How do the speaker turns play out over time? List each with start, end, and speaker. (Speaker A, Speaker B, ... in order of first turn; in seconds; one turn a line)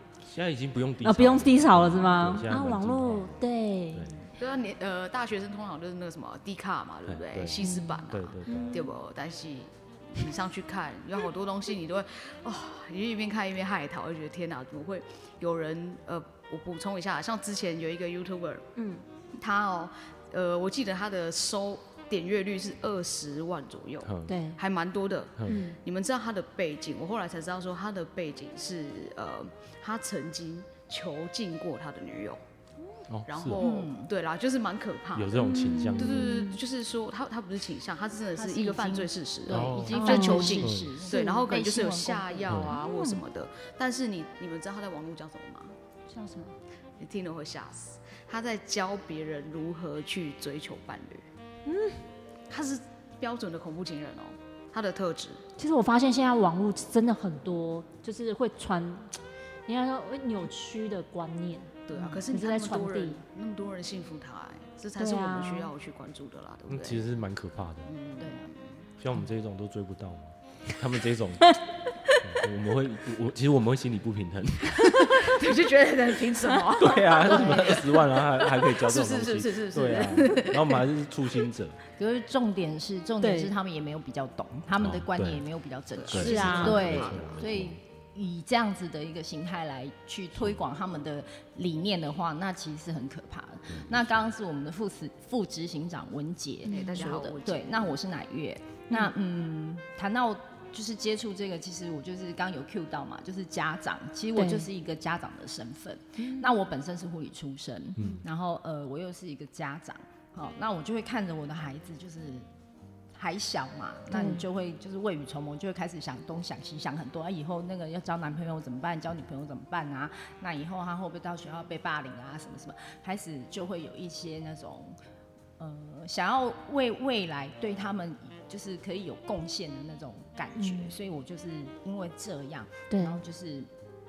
Speaker A: 0.2-4.1
Speaker B: 1.0-4.1
Speaker C: 4.4-18.7
Speaker A: 7.1-8.7
Speaker B: 7.6-8.9
Speaker B: 18.8-19.0
Speaker C: 19.3-32.4
Speaker A: 24.0-24.4
Speaker B: 24.3-24.6
Speaker B: 25.4-25.8
Speaker A: 33.1-33.6
Speaker C: 33.3-45.8
Speaker D: 33.6-34.1
Speaker A: 35.1-36.4
Speaker B: 35.4-36.6
Speaker D: 38.4-42.7
Speaker A: 39.5-41.0
Speaker B: 39.9-40.6
Speaker A: 42.5-42.8
Speaker B: 42.7-43.2
Speaker B: 46.1-46.5
Speaker C: 47.0-51.3
Speaker B: 51.6-52.0
Speaker C: 52.5-55.4
Speaker B: 55.6-63.2
Speaker C: 61.9-67.1
Speaker D: 61.9-62.2
Speaker B: 65.0-65.7
Speaker A: 66.7-67.9
Speaker C: 67.8-68.8
Speaker D: 68.2-68.5
Speaker A: 69.0-71.6
Speaker A: 72.2-75.3
Speaker C: 74.8-80.8
Speaker A: 76.8-81.8
Speaker D: 82.0-112.5
Speaker B: 83.2-83.5
Speaker A: 84.8-85.5
Speaker C: 85.9-87.5
Speaker A: 86.1-87.8
Speaker B: 86.2-86.9
Speaker A: 93.7-94.0
Speaker B: 96.7-97.1
Speaker C: 96.7-97.9
Speaker B: 104.3-104.7
Speaker B: 106.2-106.5
Speaker A: 108.0-108.2
Speaker D: 113.1-125.0
Speaker B: 114.1-114.4
Speaker D: 125.6-133.7
Speaker B: 130.6-130.9
Speaker B: 132.9-133.2